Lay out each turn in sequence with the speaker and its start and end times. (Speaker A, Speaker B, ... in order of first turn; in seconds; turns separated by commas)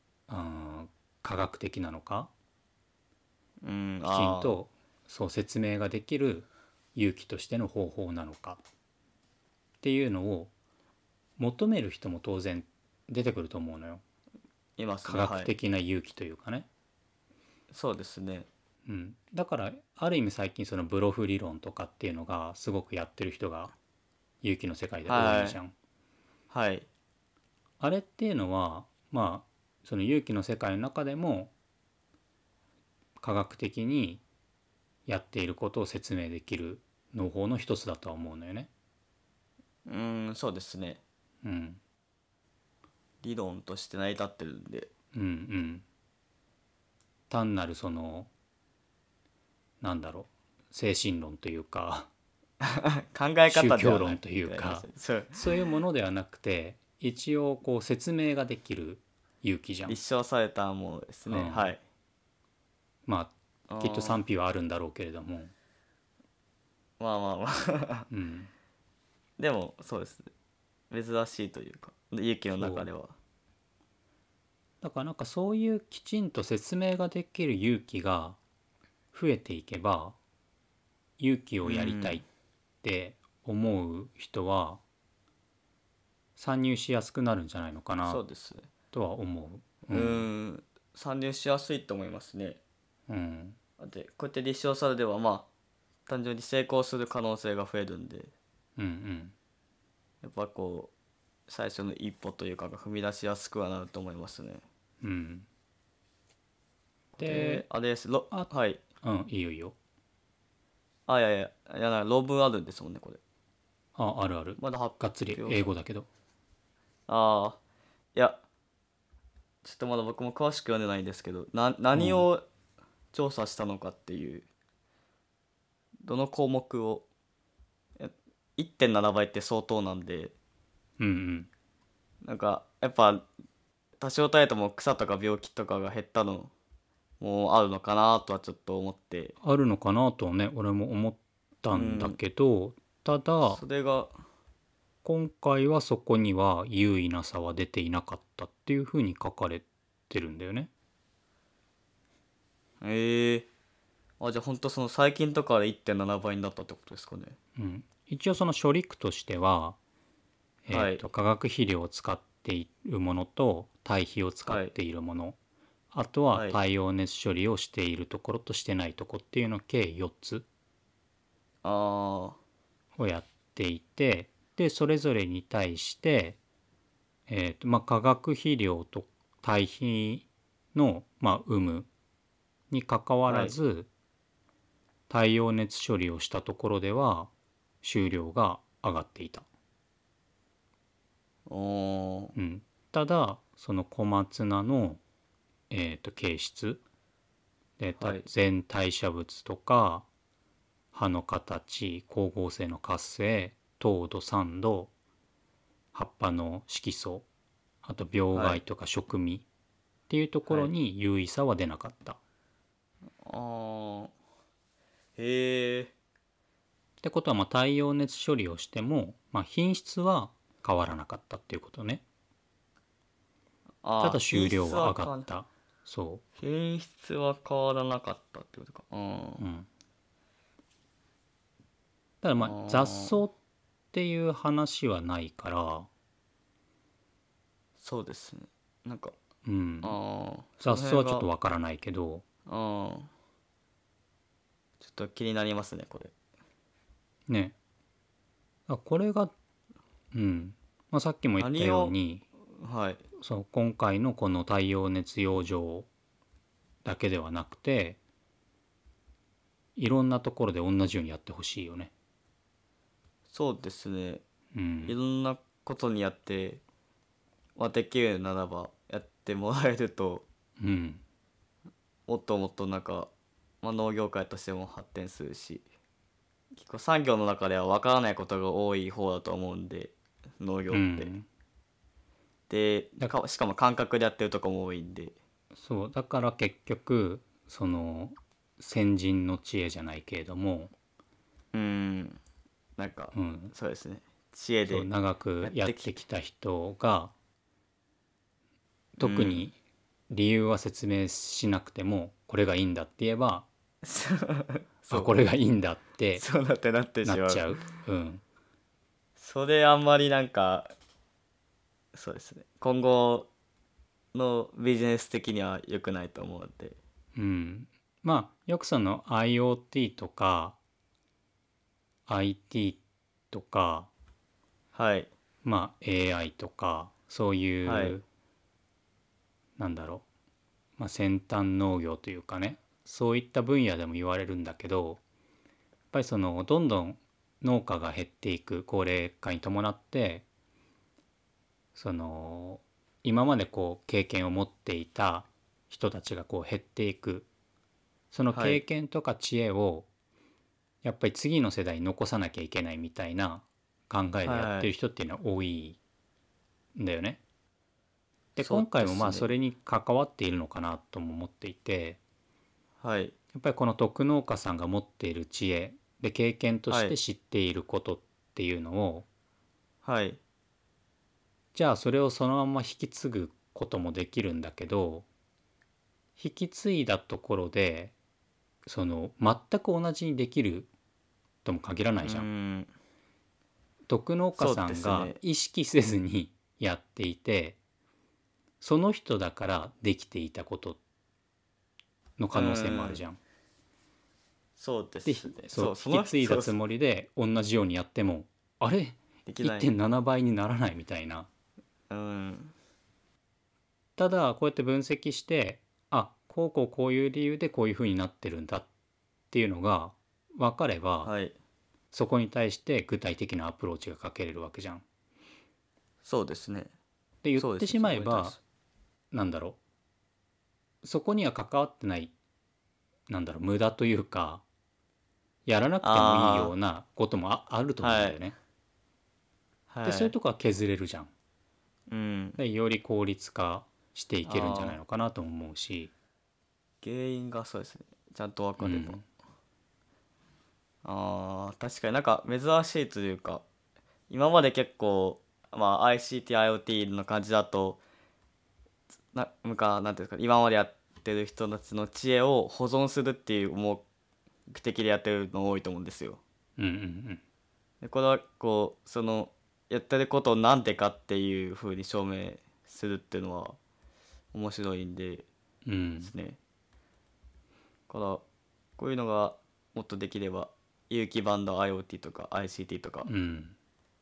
Speaker A: 0.3-2.3, Speaker B: 3.6-4.6, Speaker A: 4.1-8.6, Speaker A: 9.8-10.5, Speaker A: 11.4-14.0, Speaker B: 14.8-15.5, Speaker A: 15.1-16.7, Speaker B: 17.7-18.5, Speaker A: 18.9-23.7, Speaker A: 24.4-25.7, Speaker B: 25.1-25.6, Speaker B: 26.5-26.9, Speaker A: 27.8-31.5, Speaker A: 33.2-34.2, Speaker A: 35.1-38.7, Speaker B: 39.9-41.0, Speaker A: 41.4-41.8, Speaker B: 43.2-44.9, Speaker A: 45.1-45.9, Speaker A: 47.3-48.3, Speaker A: 49.8-52.1, Speaker B: 52.6-55.4, Speaker A: 53.5-60.0, Speaker B: 59.9-61.8, Speaker A: 61.3-61.7, Speaker A: 63.1-65.5, Speaker B: 63.7-64.2, Speaker B: 67.0-68.1, Speaker A: 68.1-68.5, Speaker B: 69.4-70.3, Speaker B: 70.9-73.2, Speaker A: 72.5-72.9, Speaker A: 74.8-78.4, Speaker A: 79.1-80.2, Speaker A: 81.2-82.2, Speaker B: 81.6-82.2, Speaker A: 82.8-84.8, Speaker A: 86.4-88.2, Speaker B: 88.1-88.7, Speaker A: 88.9-90.3, Speaker B: 89.9-92.6, Speaker A: 93.1-93.6, Speaker B: 93.8-95.5, Speaker B: 96.1-98.3, Speaker A: 98.8-99.3, Speaker B: 100.2-100.9, Speaker B: 101.5-104.6, Speaker A: 105.0-105.5, Speaker B: 107.1-108.8, Speaker A: 107.2-107.7, Speaker A: 109.0-109.8, Speaker B: 111.1-113.2, Speaker A: 114.0-116.1, Speaker B: 114.6-115.7, Speaker B: 117.1-117.6, Speaker B: 118.1-118.4, Speaker B: 119.6-122.4, Speaker A: 122.0-122.3, Speaker B: 123.1-124.5, Speaker B: 126.0-127.1, Speaker B: 128.0-130.3, Speaker A: 131.0-131.5, Speaker B: 132.2-133.3, Speaker B: 134.0-136.5, Speaker B: 137.2-139.3, Speaker A: 139.4-143.6, Speaker B: 141.7-142.2, Speaker B: 143.4-144.1, Speaker A: 145.0-150.7, Speaker B: 152.8-153.5, Speaker B: 154.2-157.4, Speaker A: 157.6-159.8, Speaker A: 160.7-165.4, Speaker B: 160.7-161.0, Speaker B: 164.5-164.7, Speaker A: 165.9-170.5, Speaker B: 166.3-166.6, Speaker B: 171.6-172.4, Speaker A: 173.0-176.4, Speaker A: 177.3-181.9, Speaker A: 182.7-183.9, Speaker B: 183.3-183.6, Speaker A: 185.1-187.3, Speaker A: 187.8-189.5, Speaker B: 191.5-192.3, Speaker A: 192.3-195.0, Speaker A: 195.7-196.8, Speaker A: 197.8-200.1, Speaker B: 198.0-198.3, Speaker A: 200.9-204.9, Speaker A: 205.9-207.2, Speaker A: 207.8-209.4, Speaker B: 208.3-208.6, Speaker A: 210.1-212.2, Speaker B: 213.2-214.1, Speaker B: 215.2-215.9, Speaker A: 217.0-222.0, Speaker B: 223.8-225.3, Speaker A: 224.0-226.2, Speaker B: 226.4-229.4, Speaker A: 229.4-229.7, Speaker A: 232.2-233.3, Speaker B: 232.4-233.2, Speaker A: 233.9-235.9, Speaker B: 237.8-239.2, Speaker A: 239.4-240.0, Speaker B: 239.8-241.3, Speaker A: 240.6-242.2, Speaker B: 242.5-243.1, Speaker B: 244.8-246.1, Speaker A: 247.3-247.6, Speaker A: 248.7-249.3, Speaker A: 250.1-252.2, Speaker B: 251.4-251.9, Speaker B: 252.6-253.0, Speaker A: 253.2-255.9, Speaker A: 256.8-258.0, Speaker A: 259.8-261.9, Speaker B: 263.3-264.2, Speaker A: 264.5-265.0, Speaker B: 264.9-266.6, Speaker B: 267.6-270.2, Speaker A: 270.6-271.0, Speaker B: 272.1-273.1, Speaker B: 273.6-275.7, Speaker B: 276.5-281.1, Speaker A: 280.7-281.3, Speaker B: 282.5-285.1, Speaker A: 285.6-290.7, Speaker B: 291.5-292.2, Speaker B: 292.8-294.9, Speaker A: 293.1-293.5, Speaker A: 294.7-297.1, Speaker B: 295.4-295.9, Speaker A: 299.0-299.6, Speaker B: 299.0-299.5, Speaker A: 300.1-303.5, Speaker B: 303.8-305.1, Speaker A: 304.9-306.2, Speaker B: 306.2-307.6, Speaker A: 307.0-308.2, Speaker B: 309.2-310.7, Speaker B: 311.9-313.3, Speaker B: 314.1-316.8, Speaker A: 317.1-320.6, Speaker A: 322.1-323.9, Speaker B: 324.7-325.1, Speaker A: 325.4-328.1, Speaker B: 327.6-328.0, Speaker A: 329.6-330.1, Speaker A: 330.8-335.0, Speaker A: 335.9-340.2, Speaker A: 341.8-347.3, Speaker A: 348.1-349.9, Speaker B: 348.3-348.6, Speaker A: 350.8-355.8, Speaker B: 354.2-354.7, Speaker A: 356.8-357.2, Speaker A: 358.4-362.0, Speaker B: 358.4-359.3, Speaker B: 362.8-363.1, Speaker A: 363.3-369.1, Speaker B: 366.7-366.9, Speaker B: 369.8-370.2, Speaker A: 371.5-375.1, Speaker A: 376.2-377.9, Speaker A: 378.6-380.7, Speaker A: 381.4-382.3, Speaker B: 382.0-382.7, Speaker A: 383.9-387.6, Speaker B: 384.4-385.2, Speaker A: 388.6-390.8, Speaker A: 392.2-393.2, Speaker B: 392.3-393.0, Speaker B: 394.6-396.6, Speaker A: 395.1-401.3, Speaker B: 399.3-399.7, Speaker B: 401.9-402.5, Speaker A: 404.0-408.7, Speaker A: 409.3-411.1, Speaker B: 411.0-411.4, Speaker A: 411.9-414.8, Speaker B: 416.0-416.7, Speaker A: 417.2-418.4, Speaker B: 417.4-418.4, Speaker A: 419.1-419.6, Speaker A: 420.8-422.1, Speaker A: 423.1-424.4, Speaker A: 425.5-428.4, Speaker B: 425.8-426.5, Speaker B: 427.8-428.2, Speaker B: 429.7-430.1, Speaker A: 429.8-431.1, Speaker B: 431.9-432.4, Speaker A: 432.4-435.9, Speaker B: 434.3-434.8, Speaker B: 436.8-439.0, Speaker A: 438.6-439.0, Speaker B: 440.8-443.4, Speaker B: 444.1-447.8, Speaker B: 449.1-453.9, Speaker B: 454.5-456.2, Speaker A: 456.6-457.2, Speaker B: 457.8-463.6, Speaker B: 464.3-465.3, Speaker A: 465.6-466.1, Speaker B: 466.0-466.4, Speaker B: 467.9-468.2, Speaker B: 468.8-473.1, Speaker A: 473.1-473.6